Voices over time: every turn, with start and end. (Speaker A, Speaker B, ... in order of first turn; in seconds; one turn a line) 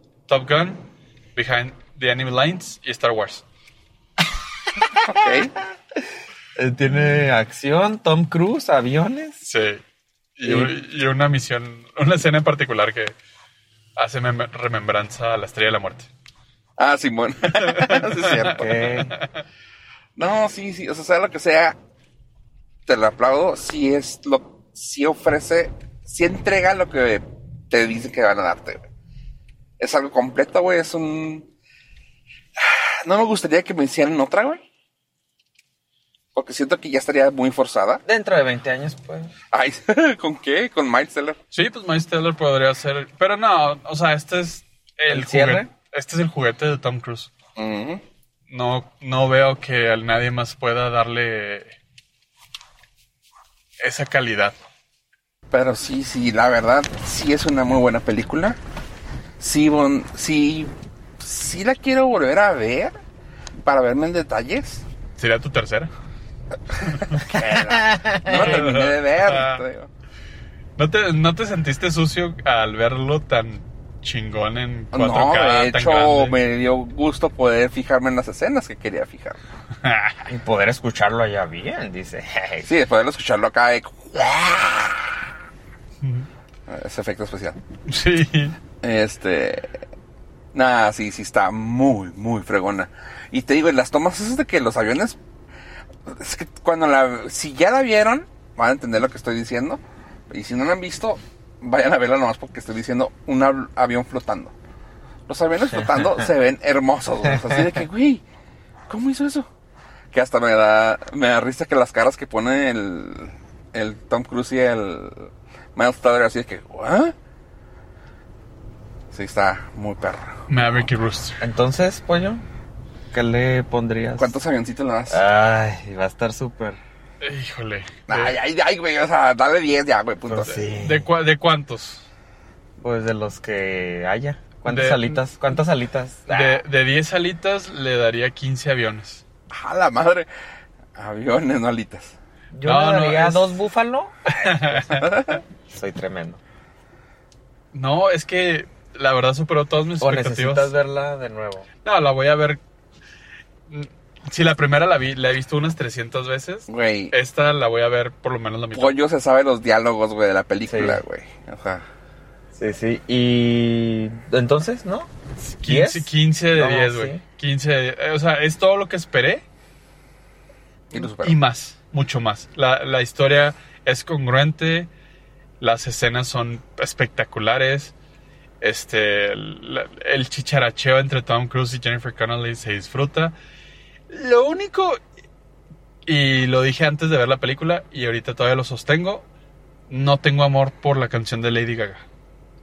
Speaker A: 0.3-3.4
Speaker B: 4.8-5.1
Speaker C: 5.0-5.5
Speaker B: 6.5-9.4
Speaker A: 9.4-9.8
Speaker A: 10.3-13.1
Speaker B: 10.4-10.7
Speaker A: 13.9-16.1
Speaker C: 16.8-18.8
Speaker A: 17.5-19.3
Speaker B: 18.4-19.2
Speaker C: 20.1-21.8
Speaker C: 22.9-28.9
Speaker C: 29.8-31.5
Speaker C: 32.6-34.6
Speaker C: 36.3-38.0
Speaker B: 38.0-39.3
Speaker C: 39.5-41.4
Speaker A: 41.5-47.3
Speaker B: 45.1-45.7
Speaker C: 47.5-48.0
Speaker A: 48.5-51.8
Speaker A: 53.8-54.5
Speaker C: 55.5-58.6
Speaker C: 59.4-63.0
Speaker C: 63.6-64.8
Speaker A: 65.2-65.9
Speaker A: 66.8-67.2
Speaker C: 67.0-69.9
Speaker B: 67.3-68.6
Speaker A: 68.3-69.6
Speaker A: 70.8-76.3
Speaker C: 74.9-79.4
Speaker A: 79.8-80.2
Speaker B: 80.2-82.7
Speaker C: 82.6-85.3
Speaker A: 86.0-86.3
Speaker C: 86.7-87.6
Speaker A: 87.8-88.5
Speaker C: 88.8-89.8
Speaker C: 90.5-95.2
Speaker C: 96.0-104.5
Speaker C: 105.3-108.2
Speaker C: 108.9-109.5
Speaker C: 110.1-117.1
Speaker C: 119.1-120.5
Speaker A: 120.5-121.4
Speaker B: 121.4-122.4
Speaker B: 123.1-124.4
Speaker C: 124.2-125.2
Speaker B: 125.1-126.8
Speaker A: 127.2-128.3
Speaker C: 128.1-130.6
Speaker B: 130.3-131.1
Speaker A: 130.7-132.1
Speaker B: 132.8-136.6
Speaker A: 134.7-135.2
Speaker A: 136.3-139.2
Speaker C: 139.5-140.3
Speaker C: 140.9-142.2
Speaker B: 142.5-146.4
Speaker A: 142.6-143.6
Speaker A: 144.2-145.4
Speaker C: 145.0-145.3
Speaker A: 147.7-150.7
Speaker B: 150.0-151.7
Speaker A: 151.8-152.6
Speaker A: 153.7-158.9
Speaker C: 156.7-157.2
Speaker C: 158.7-161.8
Speaker B: 160.7-161.0
Speaker B: 162.5-167.2
Speaker A: 165.4-169.4
Speaker C: 170.9-171.3
Speaker A: 170.9-174.9
Speaker A: 175.6-177.9
Speaker A: 178.6-183.3
Speaker A: 184.1-185.0
Speaker A: 186.1-189.2
Speaker A: 189.9-192.0